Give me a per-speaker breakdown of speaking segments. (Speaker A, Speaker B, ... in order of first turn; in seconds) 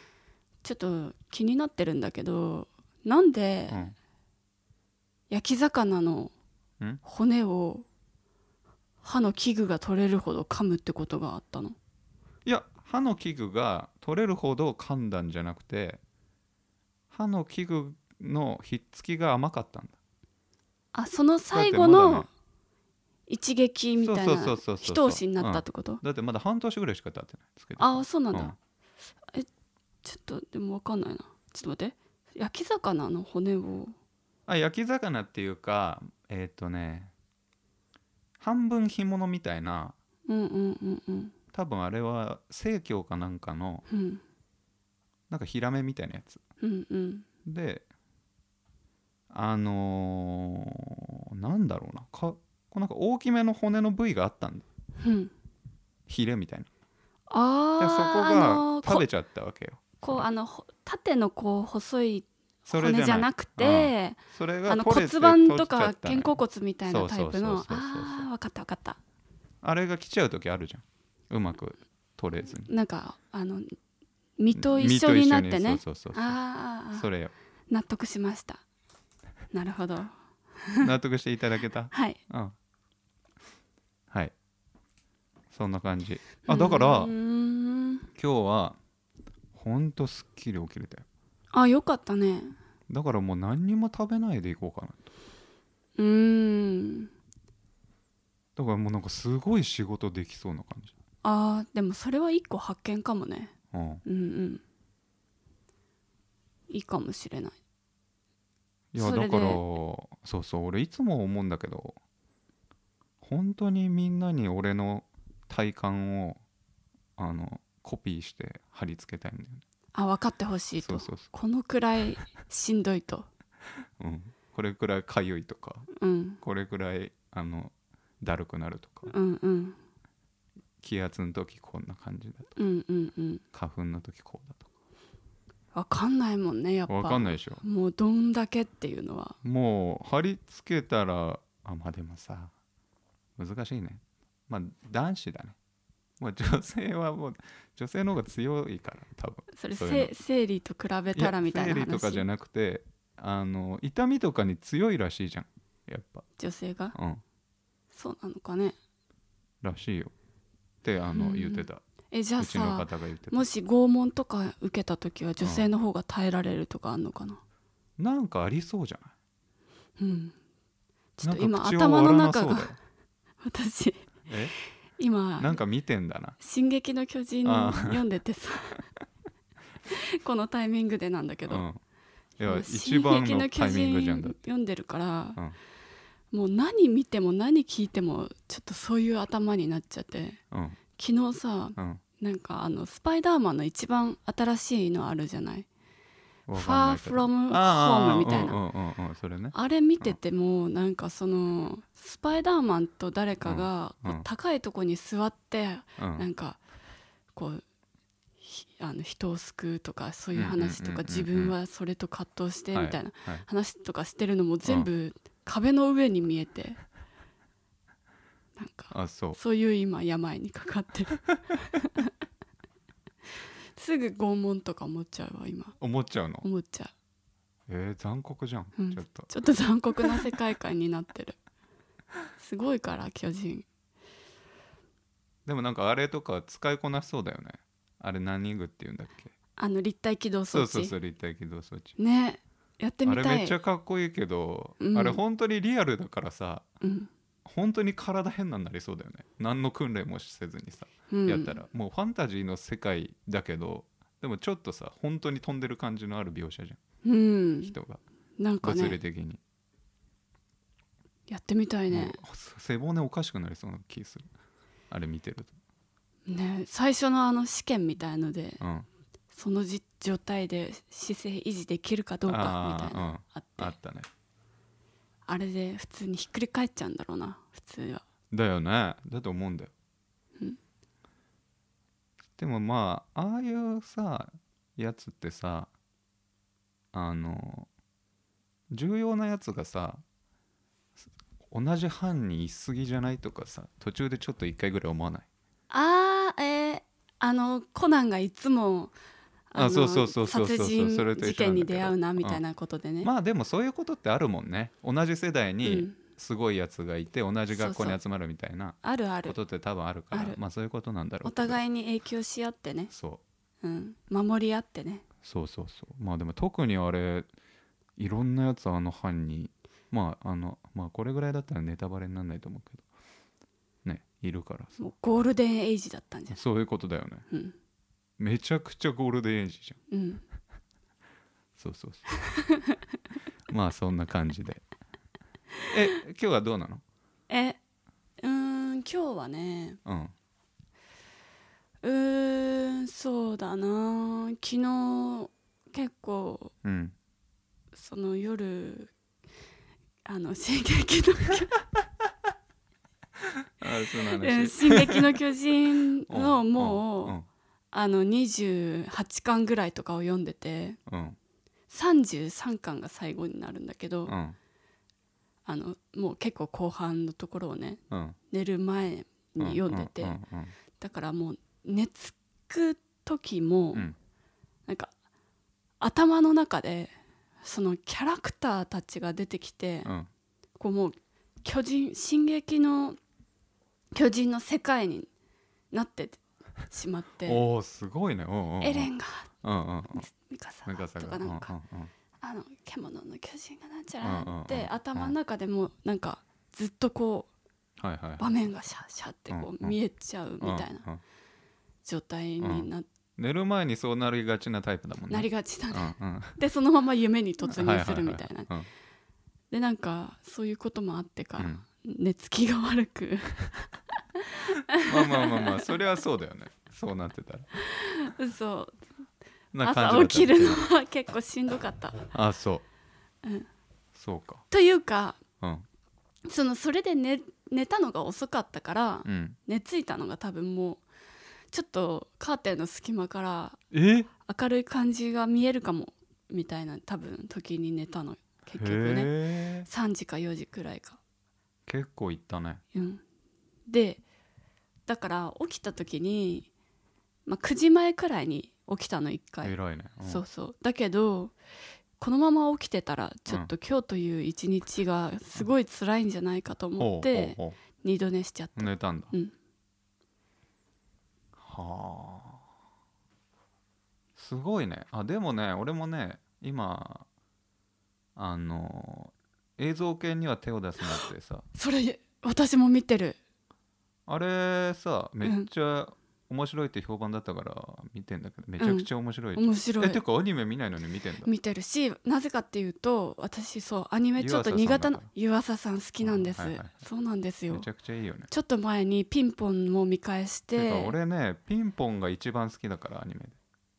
Speaker A: 0.6-3.9, 5.3-6.3, 7.0-7.9, 9.0-11.8, 20.9-22.3, 23.3-26.0, 27.8-28.6, 30.0-34.0, 40.3-41.3, 43.9-44.2, 46.6-47.3, 55.0-55.3, 57.3-59.1, 60.0-69.0, 72.7-73.7, 74.4-77.1, 77.7-78.6, 79.5-80.1, 81.9-82.2, 86.5-88.1, 91.5-92.5, 96.0-97.1, 101.2-103.5, 104.0-104.6, 106.7-107.6, 109.0-109.6, 120.0-123.3, 126.0-126.4, 129.1-129.8, 132.6-133.4, 135.7-139.4, 149.6-152.3, 156.4-156.9, 157.9-158.8, 161.1-167.4, 170.0-170.3, 171.2-172.7, 173.4-174.3, 175.0-175.6, 176.4-178.8, 179.9-181.7, 182.4-185.4, 186.3-190.4, 191.0-195.7, 196.6-198.6, 199.5-206.6, 207.3-207.6, 208.4-216.8, 218.6-222.1, 223.8-225.8, 226.4-226.9, 228.8-231.4, 232.4-233.7, 239.6-240.9, 242.0-243.6, 244.8-245.2, 246.8-247.1, 251.1-251.6, 257.0-257.8, 258.4-259.0, 261.3-262.2, 266.3-268.6, 269.3-273.7, 275.3-278.0, 295.7-298.9, 299.5-303.1, 305.6-306.0, 307.5-308.0, 308.8-309.4, 310.1-310.4, 311.2-312.9, 313.6-315.1, 324.8-326.4, 327.3-327.6, 329.9-330.2, 332.2-332.8, 337.3-337.6, 338.2-339.8, 341.8-346.5, 347.7-348.9, 350.1-351.6, 353.9-357.2, 357.7-360.8, 361.7-364.1, 365.5-370.2, 370.8-373.9, 375.8-376.9, 377.4-379.9, 380.6-383.0, 383.9-385.1, 385.7-387.4, 388.6-389.3, 389.9-391.5, 392.2-397.3, 398.2-400.9, 401.9-402.9, 405.1-408.5, 409.5-415.7, 417.6-418.8, 419.6-422.0, 424.5-425.2, 426.3-430.8, 431.5-433.6, 434.2-439.1, 439.7-441.0, 442.7-443.0, 443.7-444.0, 444.9-446.5, 447.3-451.3, 452.0-459.3, 470.9-473.2, 475.2-475.5, 478.6-480.0, 481.2-487.7, 488.3-490.9
Speaker B: 3.7-4.0, 12.4-16.0, 17.1-20.0, 21.5-22.3, 24.0-28.6, 34.5-37.1, 38.4-40.0, 41.5-43.9, 45.3-46.4, 47.5-47.9, 49.3-54.6, 56.1-56.7, 57.8-60.3, 62.7-68.3, 69.6-72.7, 74.5-76.4, 76.9-77.3, 80.8-82.5, 85.5-87.1, 88.2-88.8, 89.5-91.1, 92.9-95.1, 98.6-101.0, 103.7-104.0, 108.9-112.0, 113.2-116.4, 117.2-119.6, 120.8-121.3, 124.0-125.9, 126.4-129.1, 130.8-132.5, 133.5-134.7, 136.9-137.6, 139.4-142.5, 143.4-145.6, 146.2-150.1, 151.1-156.2, 156.9-157.2, 159.6-160.1, 160.8-161.8, 162.4-163.4, 165.4-165.7, 168.0-169.1, 171.2-172.8, 174.3-174.5, 175.4-176.4, 177.4-178.0, 181.5-181.8, 182.4-184.4, 190.5-190.8, 191.8-192.0, 196.5-200.2, 203.4-204.3, 206.0-206.3, 210.3-211.6, 212.7-213.5, 218.9-219.4, 225.8-226.5, 227.7-229.3, 235.5-239.3, 240.5-242.0, 243.1-246.7, 247.4-256.8, 257.6-258.0, 258.6-259.4, 261.9-264.3, 264.9-265.5, 268.6-268.9, 272.3-274.1, 278.3-279.7, 282.4-285.7, 286.9-287.7, 288.7-290.0, 291.5-295.3, 299.6-302.4, 303.0-311.6, 312.9-313.2, 315.2-317.3, 318.0-322.8, 323.9-324.8, 326.3-327.2, 328.2-329.8, 331.6-332.1, 333.5-334.6, 335.7-336.8, 339.9-340.1, 346.6-346.9, 353.4-355.2, 356.1-357.3, 360.9-361.2, 364.1-364.4, 367.9-368.2, 369.4-370.5, 387.3-388.9, 389.4-390.1, 390.7-391.9, 394.0-395.1, 397.8-398.3, 399.3-399.8, 400.4-401.0, 402.4-406.4, 407.5-408.7, 411.4-411.6, 414.8-417.5, 419.5-420.6, 422.1-422.6, 423.9-424.4, 429.1-429.4, 433.7-434.1, 438.6-439.7, 441.7-442.6, 449.4-450.2, 456.8-457.6, 458.6-459.1, 461.4-462.4, 464.2-467.1, 468.2-471.5, 474.1-481.3, 484.2-485.1, 486.0-486.7, 487.5-488.3, 490.6-493.4